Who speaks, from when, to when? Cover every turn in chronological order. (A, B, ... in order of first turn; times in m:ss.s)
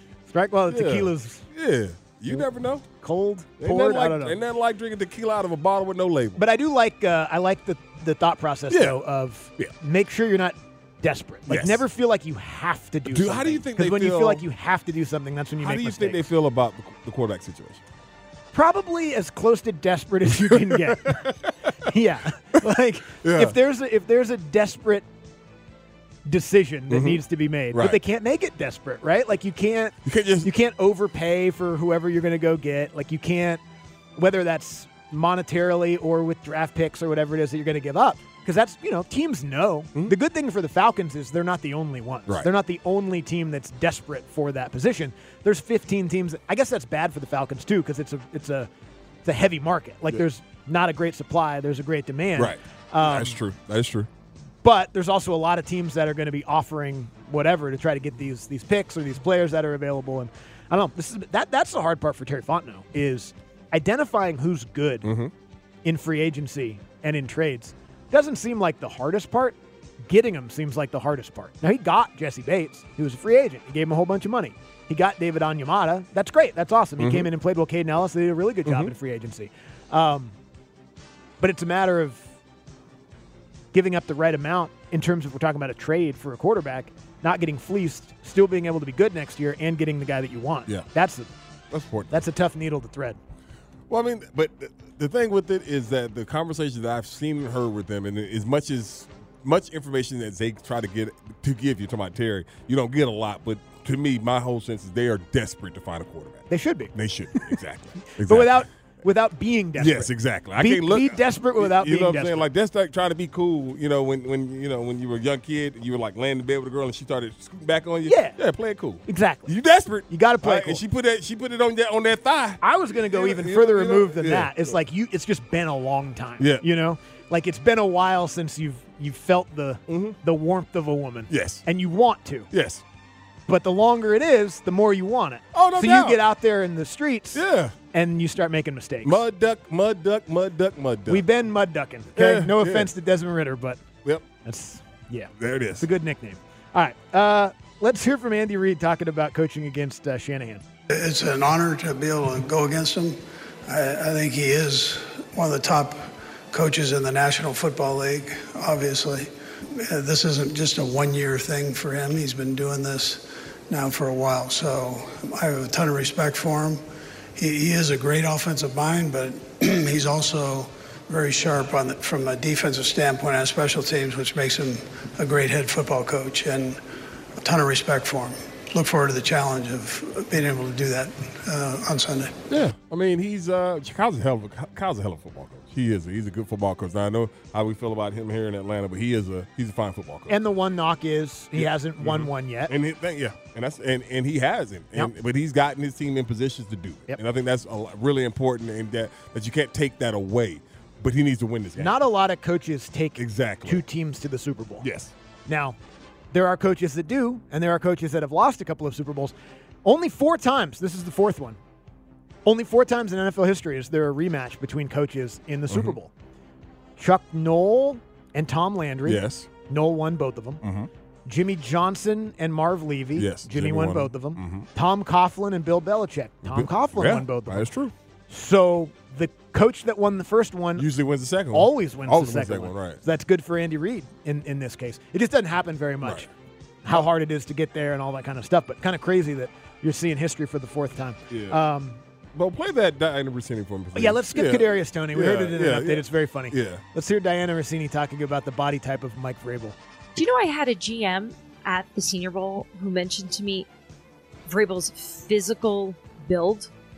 0:00.3-0:01.4 A
0:00.7-0:02.8 B
0:02.3-0:04.4 A
0:03.6-0:06.4 B
0:06.4-0:16.3 A
0:08.7-0:09.0 B
0:11.5-0:11.8 B
0:13.1-0:14.4 B
0:15.6-0:17.8 B
0:18.5-0:21.3 A
0:21.1-0:21.5 B
0:21.8-0:25.1 A
0:23.2-0:23.6 B
0:26.3-0:33.6 A
0:26.9-0:27.2 B
0:27.7-0:28.0 B
0:30.0-0:30.5 B
0:34.2-0:48.7 A
0:49.2-0:53.4 A
0:52.4-0:54.1 B
0:54.6-1:05.1 A
1:05.0-1:05.3 B
1:05.8-1:20.4 A
1:17.0-1:17.3 B
1:18.7-1:18.9 B
1:21.4-1:22.3 A
1:23.7-1:31.3 A
1:31.7-1:32.2 B
1:32.1-1:33.2 A
1:33.9-1:46.4 B
1:46.5-1:47.5 A
1:46.9-1:48.6 B
1:48.1-1:52.5 A
1:49.8-2:04.7 B
1:58.0-1:58.4 A
1:59.1-1:59.5 A
2:00.1-2:00.8 A
2:02.6-2:12.5 A
2:09.9-2:10.2 B
2:11.3-2:11.6 B
2:12.5-2:12.8 B
2:13.5-2:19.2 A
2:15.5-2:16.2 B
2:17.4-2:17.7 B
2:19.0-2:21.2 B
2:21.1-2:23.8 A
2:22.2-2:22.9 B
2:24.4-2:30.6 A
2:25.4-2:25.8 B
2:30.9-2:46.8 C
2:47.4-2:56.8 C
2:57.4-3:02.4 C
3:02.5-3:10.3 B
3:10.3-3:12.7 A
3:11.6-3:21.9 B
3:21.8-3:24.9 A
3:23.2-3:23.8 B
3:24.8-3:25.1 B
3:25.5-3:25.8 A
3:26.3-3:31.6 A
3:32.4-3:36.1 A
3:35.7-3:36.0 B
3:37.0-3:40.6 A
3:39.1-3:39.5 B
3:40.6-3:40.9 B
3:41.3-3:47.7 A
3:43.2-3:44.7 B
3:46.4-3:47.9 B
3:48.3-3:50.9 A
3:50.8-3:53.0 B
3:51.5-3:56.3 A
3:56.8-4:02.0 A
4:01.3-4:01.6 B
4:02.4-4:06.8 B
4:03.9-4:09.8 A
4:10.2-4:13.7 D
4:14.5-4:16.7 D